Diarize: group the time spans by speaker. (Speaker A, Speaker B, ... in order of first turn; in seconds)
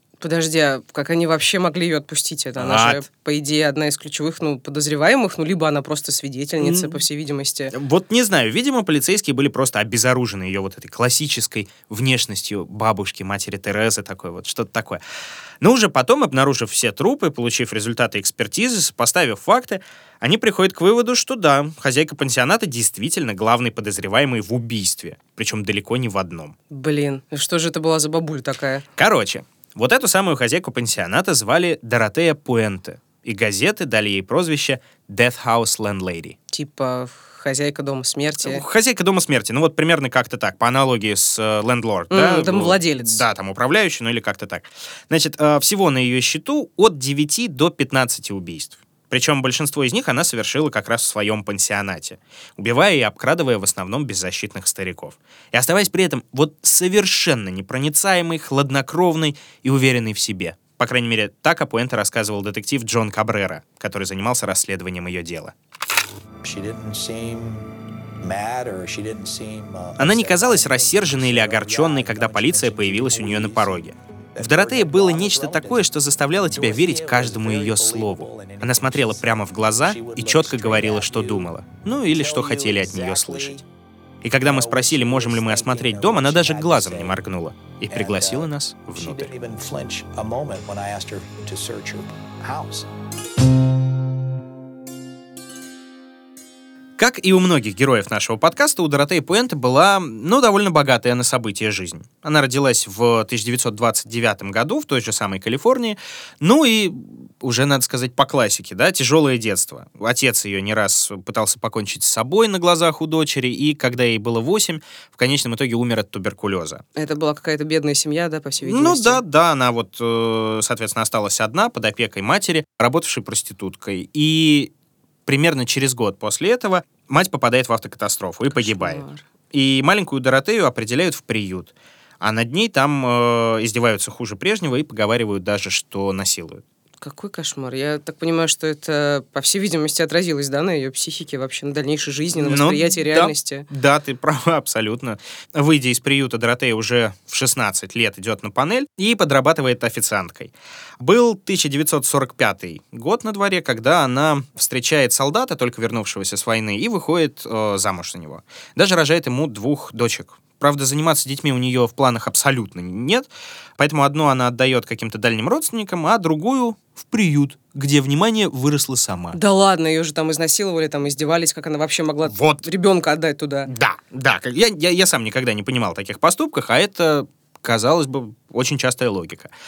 Speaker A: 0.2-7.7, 26.7-28.8, 36.5-38.6, 42.1-43.2, 117.0-119.2, 128.5-129.2, 137.0-143.6, 169.3-173.7
Speaker B: 2.6-3.0, 6.6-6.9, 7.7-15.0, 15.6-26.6, 29.0-36.4, 38.4-65.5, 70.0-83.6, 84.2-89.3, 97.0-116.8, 118.6-124.7, 125.3-136.6, 142.4-169.4, 172.2-172.6, 173.7-179.5
Speaker C: 66.4-75.9, 76.5-83.7, 84.4-87.2, 87.9-92.9